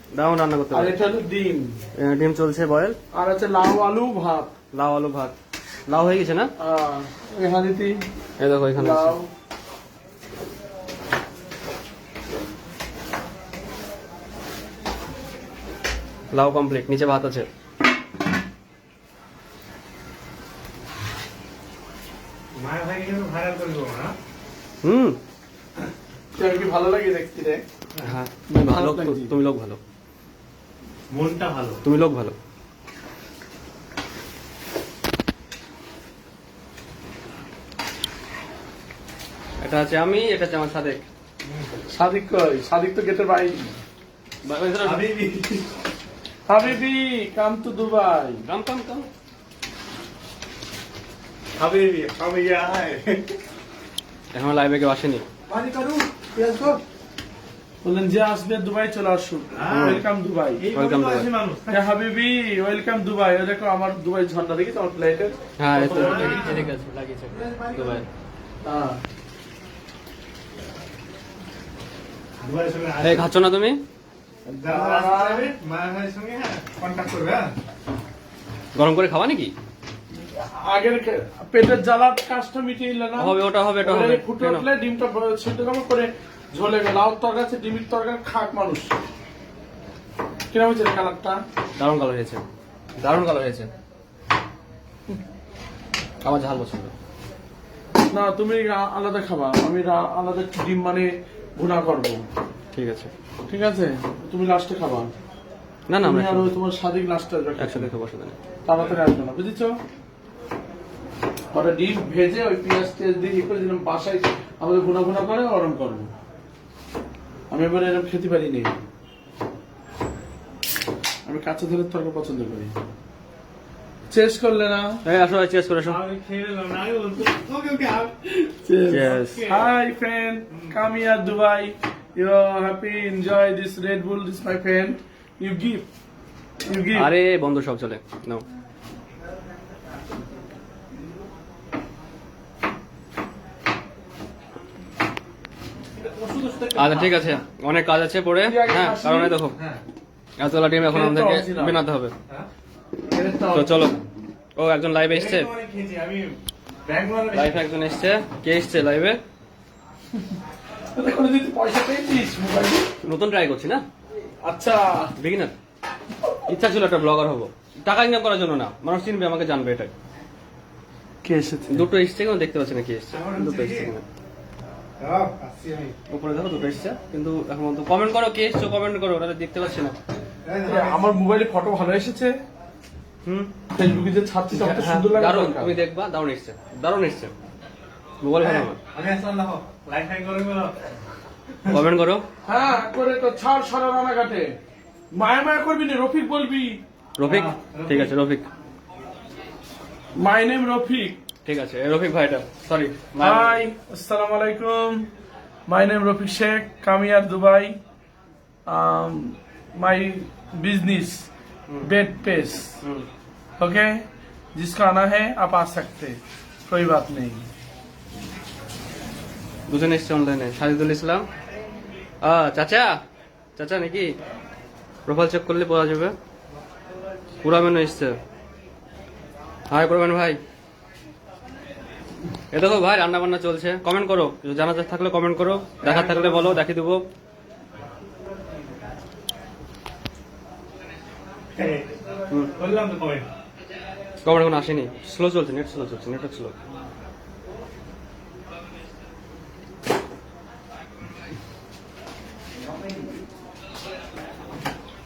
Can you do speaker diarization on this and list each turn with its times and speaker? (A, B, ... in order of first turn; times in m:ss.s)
0:00.1-0:01.0 A
0:00.7-0:01.8 B
0:02.0-0:03.0 A
0:03.1-0:04.6 B
0:04.7-0:05.4 A
0:05.9-0:06.5 A
0:06.6-0:08.0 B
0:08.4-0:09.2 A
0:08.7-0:09.3 B
0:16.3-0:17.5 A
0:22.6-0:24.2 C
0:24.8-0:25.2 A
0:26.4-0:27.6 B
0:28.0-0:29.8 A
0:28.5-0:29.3 B
0:31.1-0:31.8 C
0:31.8-0:32.4 A
0:39.6-0:41.0 A
0:41.9-0:43.8 B
0:44.4-0:45.0 A
0:44.8-0:45.7 C
0:46.5-0:48.4 B
0:48.4-0:49.1 A
0:51.6-0:53.4 C
0:54.3-0:55.3 A
0:55.5-0:56.8 C
0:57.8-1:00.7 B
0:59.5-1:00.1 C
0:59.7-1:00.0 A
1:00.6-1:01.8 C
1:00.7-1:01.3 A
1:01.7-1:06.6 B
1:05.6-1:08.1 A
1:05.8-1:06.7 C
1:07.3-1:08.0 C
1:08.6-1:09.0 B
1:12.4-1:13.3 C
1:13.0-1:13.8 A
1:14.5-1:15.5 B
1:14.6-1:17.5 C
1:18.8-1:19.5 A
1:20.3-1:29.0 B
1:23.2-1:24.7 A
1:30.5-1:31.4 B
1:31.8-1:32.4 A
1:33.0-1:33.7 A
1:36.2-1:36.9 A
1:38.1-1:42.3 B
1:42.7-1:43.1 A
1:43.5-1:45.1 B
1:45.9-1:46.5 A
1:46.0-1:47.9 B
1:47.6-1:48.4 A
1:48.7-1:49.8 B
1:51.5-1:56.1 B
1:57.5-1:58.7 B
2:01.3-2:02.7 B
2:04.1-2:05.0 B
2:05.0-2:06.0 A
2:05.8-2:08.4 C
2:08.5-2:15.9 B
2:08.9-2:09.4 A
2:09.1-2:09.7 C
2:10.5-2:10.8 C
2:16.7-2:17.1 B
2:16.9-2:18.4 A
2:26.0-2:27.4 C
2:26.8-2:29.6 A
2:28.4-2:29.4 B
2:29.6-2:29.8 C
2:30.4-2:32.1 A
2:30.9-2:31.8 B
2:33.1-2:34.0 B
2:33.5-2:34.0 A
2:34.6-2:35.5 A
2:35.1-2:37.6 C
2:37.3-2:39.2 A
2:41.0-2:42.9 B
2:43.0-2:43.8 A
2:44.4-2:45.1 B
2:45.2-2:45.6 A
2:46.5-2:49.9 A
2:51.2-2:51.9 B
2:51.7-2:54.0 A
2:53.1-2:53.9 C
2:55.0-2:56.0 C
2:56.1-2:59.9 A
3:00.4-3:01.2 C
3:00.7-3:02.4 B
3:03.2-3:03.5 A
3:03.7-3:05.8 B
3:04.5-3:07.3 A
3:08.2-3:08.8 A
3:08.6-3:10.8 C
3:11.7-3:12.2 A
3:12.4-3:14.5 B
3:15.1-3:16.8 B
3:17.2-3:18.5 A
3:17.2-3:18.1 C
3:20.2-3:21.2 B
3:21.4-3:23.6 A
3:23.2-3:25.1 B
3:25.7-3:27.8 B
3:28.7-3:31.3 B
3:31.8-3:32.8 B
3:32.8-3:33.1 A
3:33.6-3:34.0 B
3:34.6-3:37.5 B
3:39.7-3:41.3 A
3:42.2-3:43.0 A
3:43.6-3:44.1 A
3:45.1-3:46.1 A
3:47.4-3:48.2 A
3:49.7-3:50.4 A
3:52.5-3:57.0 A
3:55.8-3:56.6 C
4:01.6-4:02.0 C
4:02.6-4:03.3 C
4:04.2-4:06.6 A